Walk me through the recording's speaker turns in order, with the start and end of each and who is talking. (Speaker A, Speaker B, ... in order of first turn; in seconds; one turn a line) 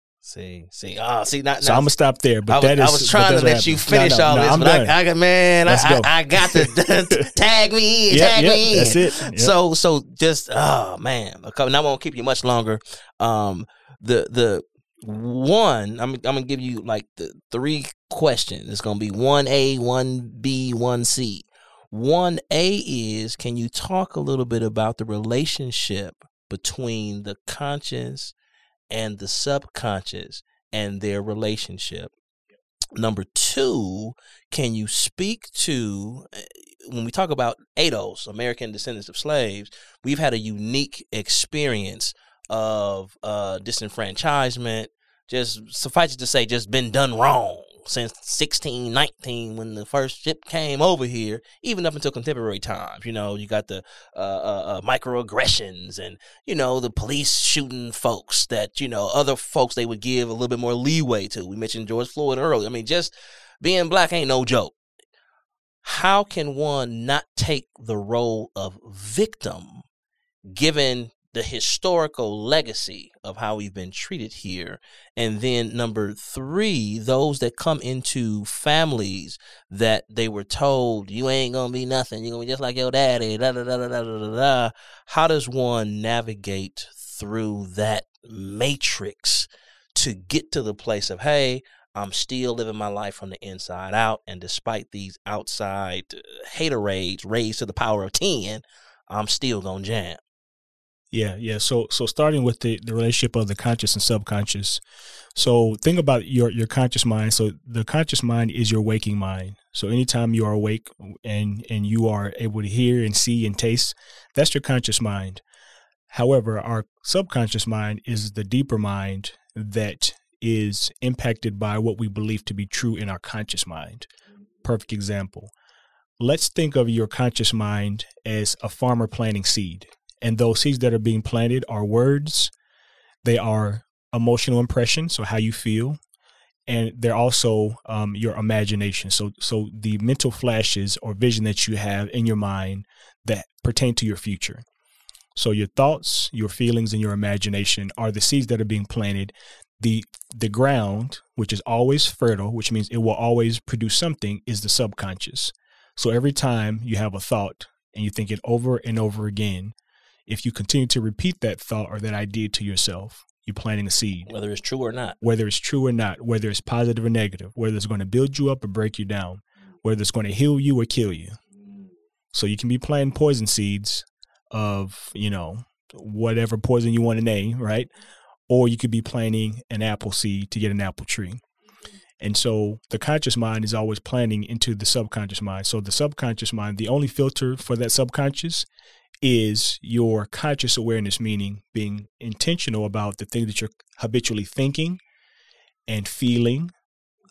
Speaker A: 0.2-1.9
Speaker B: 1.6-4.9
Speaker A: 2.5-28.3
Speaker B: 5.7-7.2
Speaker B: 8.1-9.5
Speaker A: 28.9-32.1
Speaker A: 32.9-64.8
Speaker A: 65.8-69.8
Speaker A: 70.4-100.2
Speaker B: 101.1-104.8
Speaker B: 105.3-115.4
Speaker B: 116.1-124.1
Speaker B: 124.6-125.5
Speaker B: 126.2-132.5
Speaker B: 133.2-136.0
Speaker B: 136.7-144.6
Speaker B: 145.3-159.7
Speaker B: 160.3-164.3
Speaker A: 164.3-165.2
Speaker B: 165.2-171.4
Speaker B: 172.3-177.9
Speaker B: 178.5-181.4
Speaker B: 182.2-188.7
Speaker B: 189.2-195.0
Speaker B: 195.9-196.7